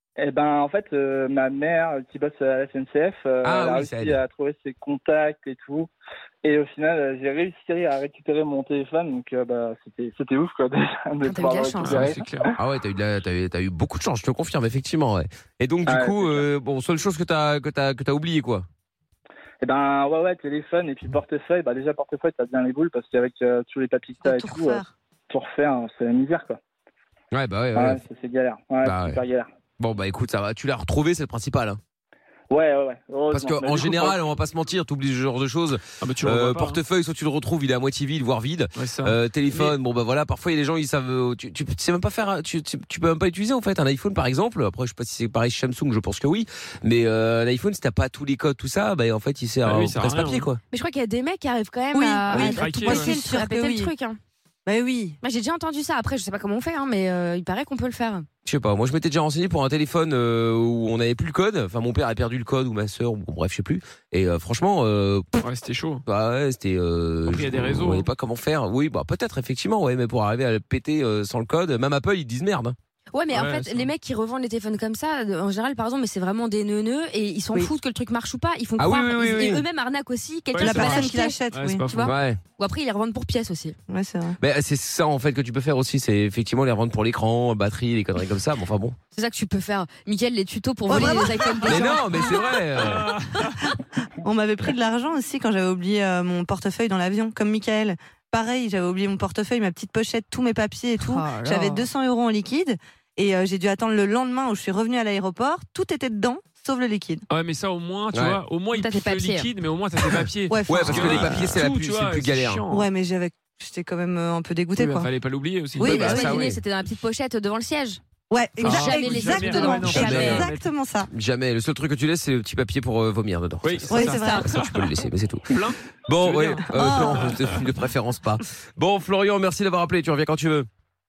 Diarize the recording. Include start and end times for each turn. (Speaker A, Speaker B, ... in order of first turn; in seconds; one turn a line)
Speaker A: 0.2-5.9
Speaker B: 3.4-4.2
Speaker A: 6.4-12.2
Speaker C: 11.2-12.2
Speaker D: 11.8-12.5
Speaker B: 12.6-18.7
Speaker A: 15.9-16.4
Speaker A: 19.6-26.6
Speaker E: 24.2-24.9
Speaker B: 27.3-28.0
Speaker A: 27.8-29.5
Speaker B: 28.8-29.2
Speaker B: 29.8-31.8
Speaker A: 32.5-34.2
Speaker B: 33.3-50.6
Speaker D: 36.0-36.8
Speaker D: 38.8-39.8
Speaker D: 49.6-50.5
Speaker C: 50.7-54.2
Speaker E: 51.9-53.9
Speaker D: 52.3-53.1
Speaker E: 54.7-55.2
Speaker C: 55.2-58.3
Speaker B: 58.5-65.3
Speaker D: 65.4-66.0
Speaker B: 66.1-72.8
Speaker D: 67.3-68.1
Speaker C: 73.1-83.8
Speaker D: 73.3-73.9
Speaker B: 78.8-79.7
Speaker D: 80.5-82.1
Speaker E: 80.5-81.9
Speaker B: 82.0-82.4
Speaker E: 83.9-84.4
Speaker B: 84.4-89.0
Speaker C: 89.1-92.1
Speaker E: 90.9-92.2
Speaker B: 91.7-93.1
Speaker D: 92.2-93.6
Speaker E: 93.6-107.2
Speaker C: 101.0-101.9
Speaker D: 107.3-112.9
Speaker B: 108.1-108.4
Speaker C: 108.7-109.5
Speaker E: 110.5-111.6
Speaker B: 110.7-112.6
Speaker E: 112.7-115.1
Speaker D: 114.8-116.2
Speaker E: 115.8-116.5
Speaker C: 115.8-118.0
Speaker B: 115.9-116.6
Speaker E: 118.3-121.1
Speaker C: 118.6-120.5
Speaker D: 118.6-120.6
Speaker B: 120.0-120.5
Speaker B: 121.1-125.5
Speaker D: 123.6-124.9
Speaker E: 123.9-124.5
Speaker D: 125.5-127.4
Speaker B: 126.1-130.7
Speaker E: 126.7-127.3